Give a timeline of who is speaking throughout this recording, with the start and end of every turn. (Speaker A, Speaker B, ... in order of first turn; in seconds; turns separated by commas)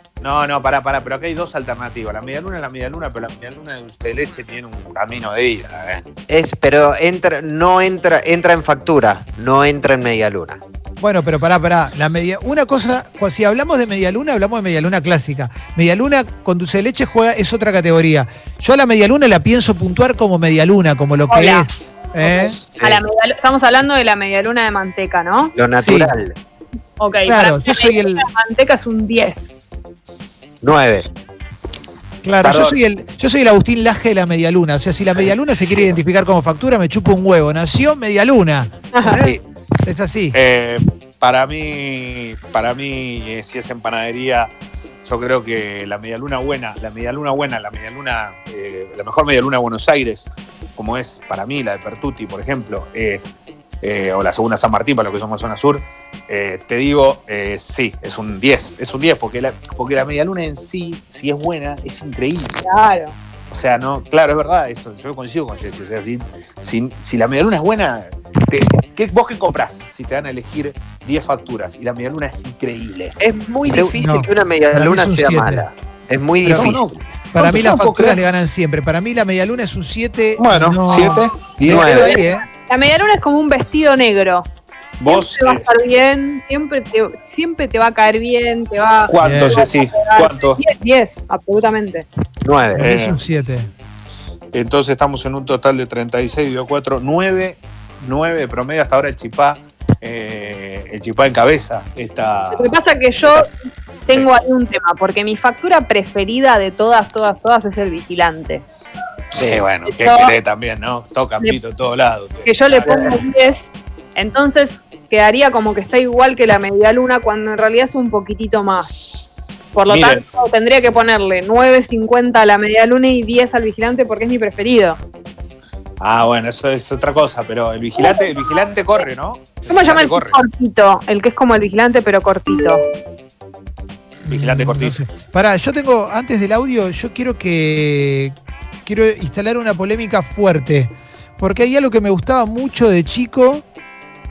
Speaker A: 0.2-6.0, Speaker B: 6.3-10.6, Speaker C: 11.0-22.6, Speaker D: 21.3-21.7, Speaker D: 22.3-25.5, Speaker B: 25.5-26.4, Speaker C: 25.8-26.1, Speaker D: 27.0-29.7, Speaker C: 27.2-28.2, Speaker B: 30.6-31.1, Speaker C: 32.2-40.4, Speaker A: 32.4-32.8, Speaker D: 38.9-39.2, Speaker B: 39.1-39.4, Speaker A: 40.3-44.5, Speaker A: 45.0-53.2, Speaker A: 53.8-62.6, Speaker D: 62.6-63.1, Speaker A: 63.5-74.0, Speaker B: 73.2-76.9, Speaker C: 73.9-75.7, Speaker C: 76.4-76.7, Speaker A: 76.4-78.2, Speaker C: 77.3-82.5, Speaker A: 80.4-82.1, Speaker B: 81.7-82.2, Speaker D: 82.5-84.5, Speaker A: 85.0-85.7, Speaker D: 85.0-92.0, Speaker A: 89.1-90.6, Speaker C: 89.2-89.6, Speaker B: 92.4-92.8, Speaker C: 92.8-93.7, Speaker A: 92.8-93.2, Speaker A: 94.5-102.8, Speaker D: 102.5-103.5, Speaker D: 104.1-108.6, Speaker A: 109.3-113.2, Speaker D: 109.9-110.3, Speaker D: 112.4-119.2, Speaker D: 119.7-125.0, Speaker A: 119.9-120.2, Speaker A: 126.0-130.4, Speaker D: 128.0-128.6, Speaker D: 129.7-132.8, Speaker C: 134.2-143.6, Speaker A: 134.3-134.9